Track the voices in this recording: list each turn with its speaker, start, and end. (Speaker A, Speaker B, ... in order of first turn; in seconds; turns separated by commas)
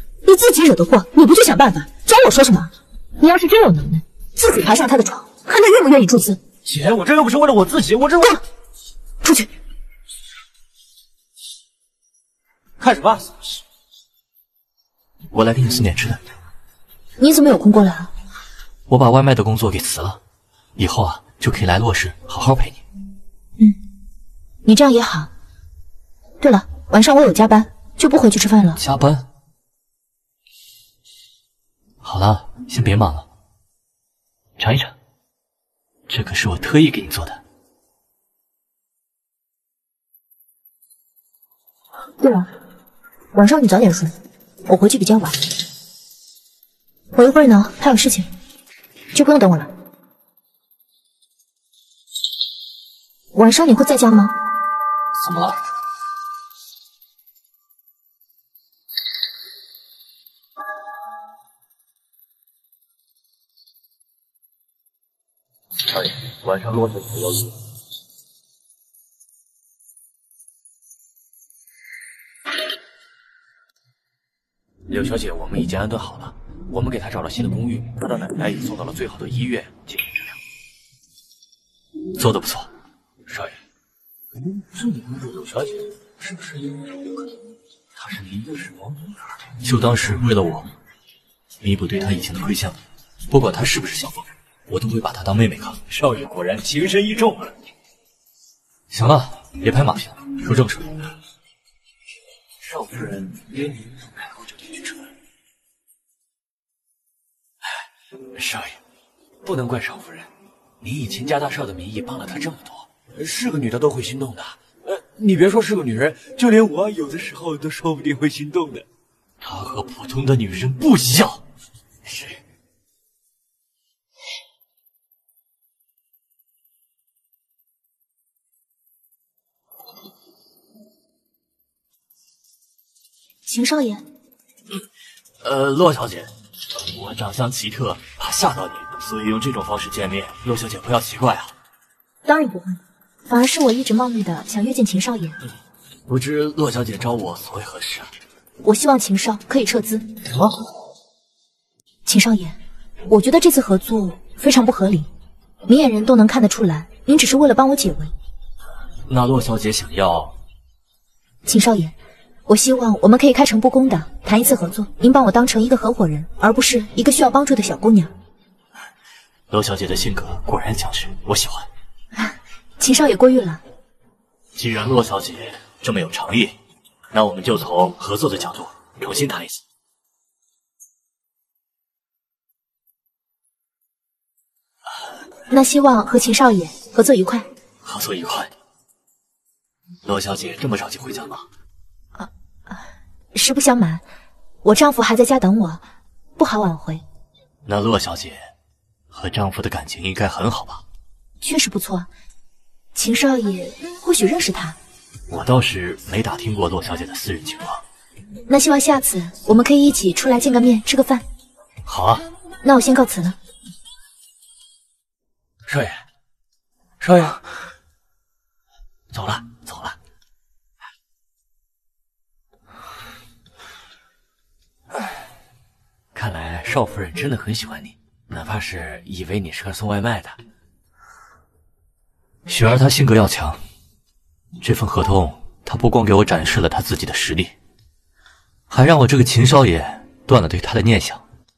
Speaker A: 0.2-6.4, Speaker B: 6.6-8.4, Speaker A: 9.2-9.5, Speaker B: 12.8-13.3, Speaker C: 15.3-16.2, Speaker A: 17.2-18.1, Speaker C: 18.9-20.2, Speaker C: 20.8-22.8, Speaker A: 24.6-25.3, Speaker A: 26.4-28.8, Speaker C: 28.8-29.3, Speaker C: 32.0-33.3, Speaker C: 34.6-34.9, Speaker C: 36.1-37.4, Speaker A: 42.2-42.5, Speaker A: 43.3-44.1, Speaker A: 44.6-45.4, Speaker A: 47.1-48.3, Speaker A: 49.1-49.7, Speaker A: 53.3-54.4, Speaker C: 55.2-55.6, Speaker B: 65.9-67.5, Speaker B: 74.9-80.4, Speaker C: 82.2-82.7, Speaker B: 83.3-83.6, Speaker B: 84.4-87.0, Speaker B: 88.0-89.2, Speaker C: 89.6-90.7, Speaker C: 91.6-95.8, Speaker B: 95.9-97.5, Speaker C: 98.9-101.0, Speaker B: 102.6-105.1, Speaker B: 108.3-108.8, Speaker B: 109.4-110.3, Speaker B: 110.8-118.9, Speaker C: 119.4-121.4, Speaker B: 122.0-122.4, Speaker A: 133.5-134.0, Speaker C: 135.4-141.5, Speaker A: 142.2-145.4, Speaker C: 146.1-148.1, Speaker A: 148.6-150.1, Speaker A: 152.1-152.6, Speaker A: 153.1-155.1, Speaker A: 155.7-158.1, Speaker C: 159.1-160.3, Speaker A: 161.4-161.9, Speaker A: 162.5-168.1, Speaker C: 169.5-171.7, Speaker A: 172.2-173.6, Speaker C: 174.6-176.6, Speaker C: 177.1-179.6, Speaker A: 185.5-187.5, Speaker C: 187.8-188.5, Speaker C: 190.1-191.4, Speaker A: 192.2-194.0, Speaker A: 194.6-195.8, Speaker A: 196.4-197.0, Speaker C: 197.7-198.5, Speaker C: 199.1-200.8, Speaker A: 201.4-202.1, Speaker A: 202.9-204.8, Speaker C: 205.3-207.8, Speaker A: 208.5-211.2, Speaker C: 211.9-212.3, Speaker A: 212.6-213.4, Speaker B: 215.7-216.0, Speaker B: 217.0-217.4, Speaker B: 219.1-220.0, Speaker B: 226.1-230.4, Speaker C: 232.5-233.6, Speaker C: 234.6-237.5, Speaker C: 238.7-241.2